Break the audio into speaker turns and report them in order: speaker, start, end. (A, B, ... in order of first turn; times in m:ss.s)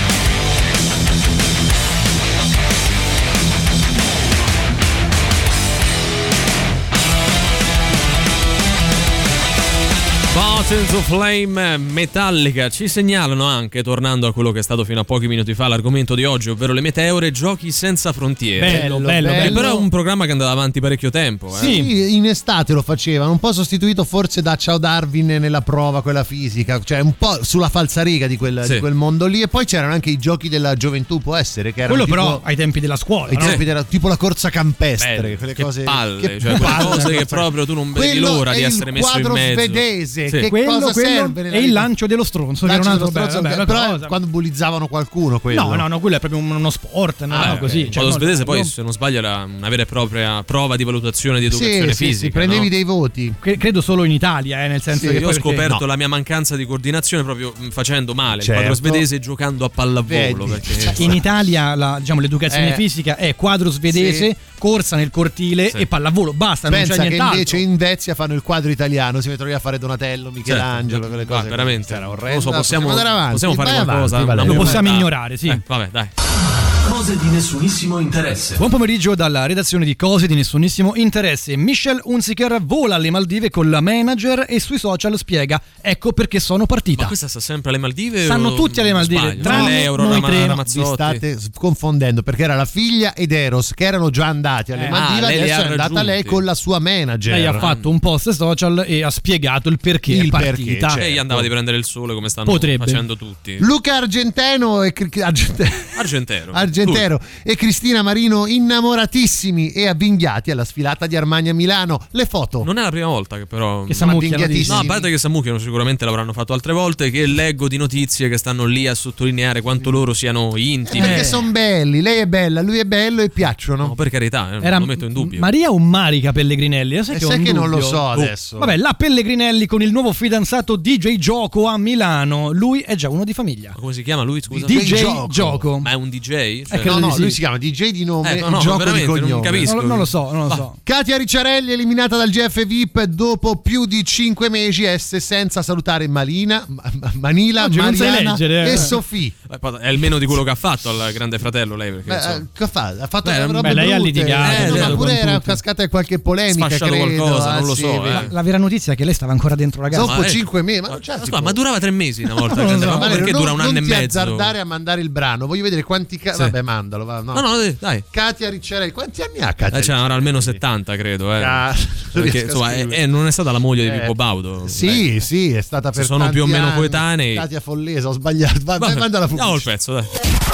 0:10.3-0:21.8 A
0:18.6-0:19.6 B
0:18.6-0:19.9 C
0:21.5-0:32.4 C
0:21.6-0:21.9 B
0:31.9-0:33.6 B
0:33.3-0:41.9 C
0:35.0-0:40.5 A
0:36.5-0:37.2 B
0:40.4-0:44.2 B
0:42.6-0:45.9 C
0:45.5-0:48.7 B
0:47.3-0:48.0 C
0:47.4-0:52.7 A
0:51.5-0:53.4 C
0:53.4-0:55.8 B
0:54.9-0:55.4 C
0:55.0-1:01.2 A
0:58.4-0:59.0 C
1:00.0-1:01.2 C
1:00.9-1:07.6 B
1:02.5-1:02.8 C
1:03.9-1:04.3 C
1:06.7-1:14.9 C
1:10.4-1:16.1 A
1:14.4-1:15.6 B
1:18.6-1:27.1 B
1:27.0-1:31.2 A
1:28.2-1:30.6 B
1:29.4-1:37.7 C
1:34.7-1:35.0 B
1:34.9-1:36.4 A
1:37.3-1:41.0 B
1:37.5-1:37.9 A
1:40.1-1:41.5 C
1:41.0-1:43.6 A
1:42.4-1:43.0 B
1:43.6-1:52.7 C
1:45.9-1:47.0 A
1:52.6-1:54.1 A
1:53.9-1:54.9 B
1:53.9-1:55.1 C
1:54.6-2:01.3 A
2:00.9-2:03.9 C
2:01.0-2:01.4 B
2:03.8-2:05.5 A
2:04.6-2:08.0 B
2:07.1-2:08.7 C
2:08.6-2:13.8 B
2:13.7-2:15.3 A
2:14.5-2:15.9 B
2:14.7-2:15.6 C
2:15.8-2:17.0 A
2:16.7-2:17.4 B
2:16.7-2:19.7 C
2:18.2-2:20.6 A
2:19.6-2:20.8 B
2:20.8-2:29.3 C
2:27.6-2:28.9 B
2:28.7-2:32.4 A
2:32.1-2:38.3 C
2:33.2-2:33.9 A
2:33.6-2:35.6 B
2:34.4-2:35.0 A
2:36.5-2:38.3 A
2:38.1-2:40.1 B
2:39.9-2:41.6 C
2:40.0-2:44.5 A
2:42.5-2:43.2 B
2:42.5-2:47.4 C
2:47.3-2:48.0 A
2:48.1-2:50.6 C
2:49.7-2:55.1 A
2:51.4-2:53.0 C
2:53.8-2:59.7 C
2:55.9-2:57.4 A
2:58.8-3:00.1 A